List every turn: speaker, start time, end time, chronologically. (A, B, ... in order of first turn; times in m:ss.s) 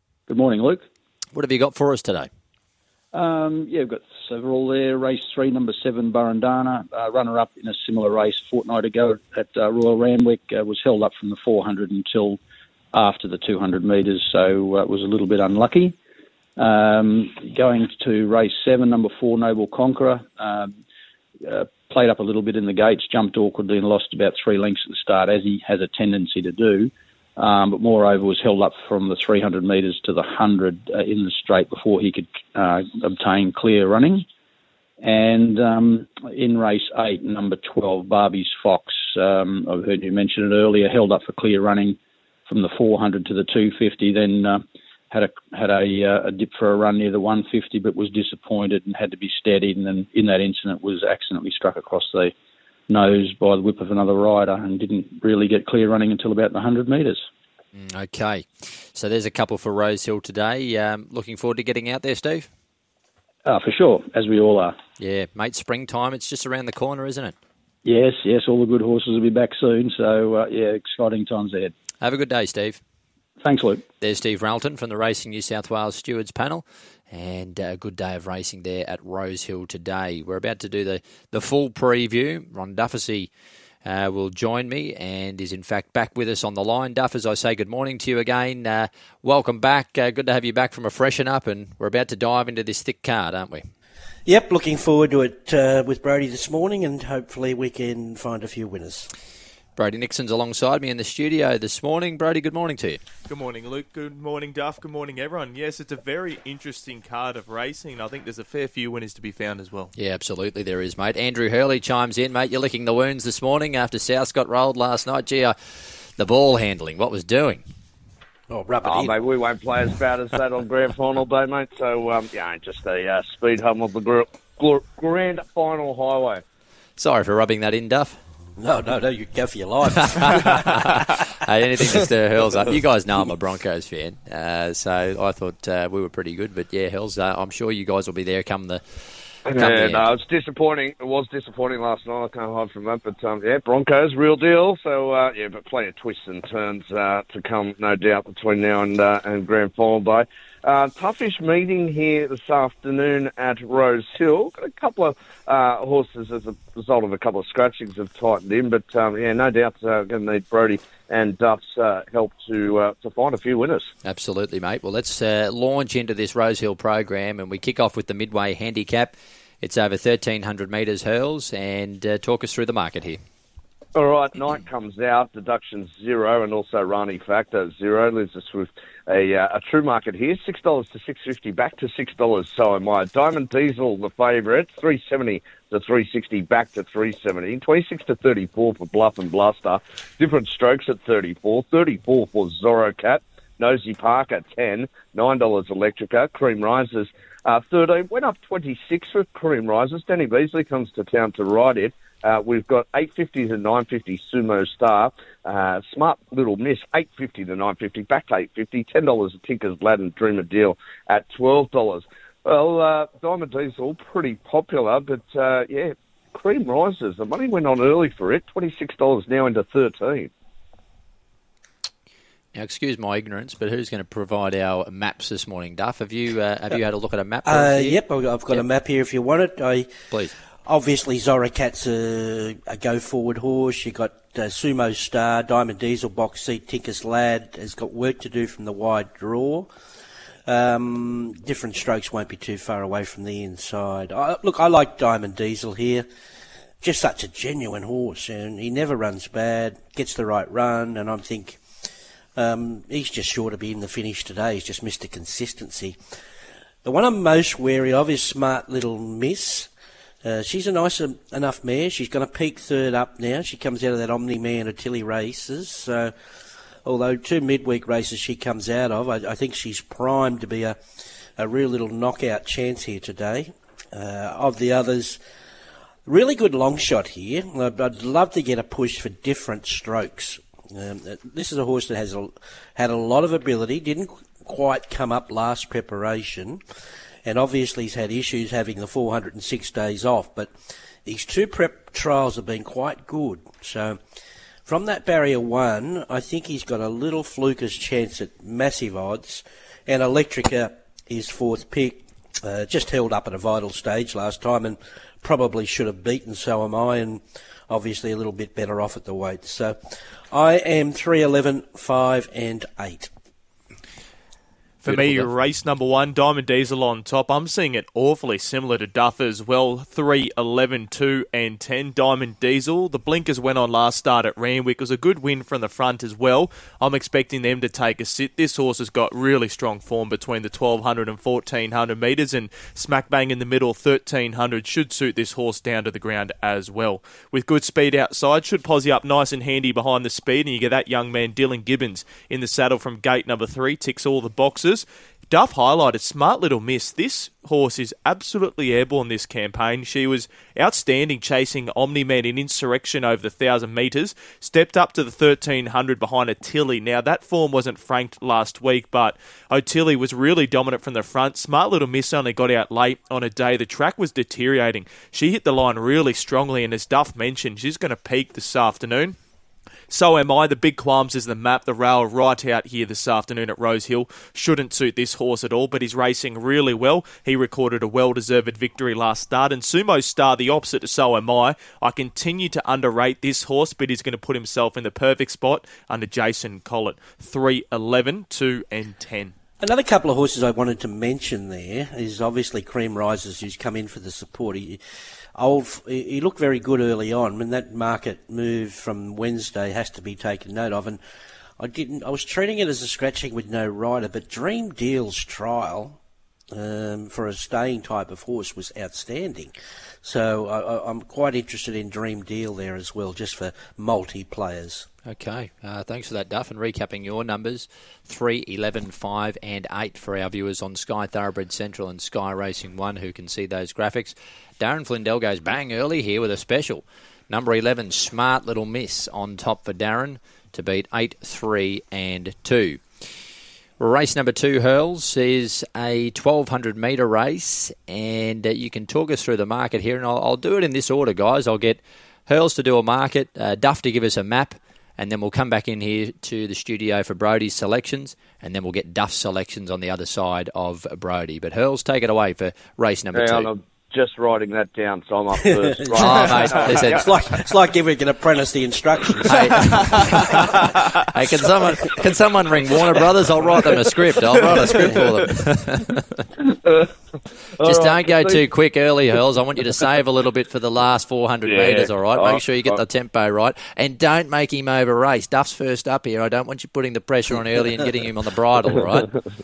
0:00.3-0:00.8 A
0:01.3-0:02.3 B
0:03.1-0:12.4 A
0:12.9-0:16.0 A
0:16.6-0:20.8 A
0:21.4-0:34.3 A
0:35.0-0:52.3 A
0:52.9-0:57.2 A
0:57.7-1:02.5 B
1:03.4-1:04.8 A
1:05.0-1:07.3 B
1:07.8-1:11.7 A
1:12.0-1:12.8 B
1:13.4-1:13.8 A
1:14.0-1:23.3 B
1:23.8-1:33.7 B
1:34.2-1:39.1 C
1:39.8-1:43.0 B
1:43.3-1:49.9 D
1:50.0-1:57.6 B
1:58.5-1:59.1 C
1:58.8-2:06.4 E
2:07.0-2:08.2 B
2:08.6-2:10.8 C
2:10.0-2:20.1 B
2:19.5-2:43.9 E
2:44.0-2:53.2 B
2:53.9-3:40.3 E
3:42.5-3:48.0 B
3:47.4-3:49.9 C
3:50.6-3:59.7 C
4:00.4-4:06.0 C
4:06.8-4:11.6 C
4:12.4-4:16.0 C
4:16.8-4:19.7 C
4:20.2-4:26.1 C
4:26.8-4:30.8 C
4:31.4-4:35.2 C
4:36.0-4:46.6 C
4:47.2-4:50.5 C
4:51.0-4:54.0 C
4:54.6-5:09.8 C
5:10.3-5:13.1 C
5:14.8-6:09.2 D
5:14.9-5:15.2 B
6:09.9-6:29.3 D
6:29.6-6:34.8 C
6:35.4-6:41.0 C
6:41.6-6:46.0 C
6:46.5-6:54.9 C
6:55.0-7:12.8 B
7:13.8-7:33.5 B
7:33.1-7:36.9 E
7:35.4-7:40.6 C
7:36.0-7:37.1 B
7:39.3-7:46.3 B
7:46.4-7:46.9 E
7:47.6-7:48.4 E
7:47.6-7:59.1 B
7:51.4-7:52.8 E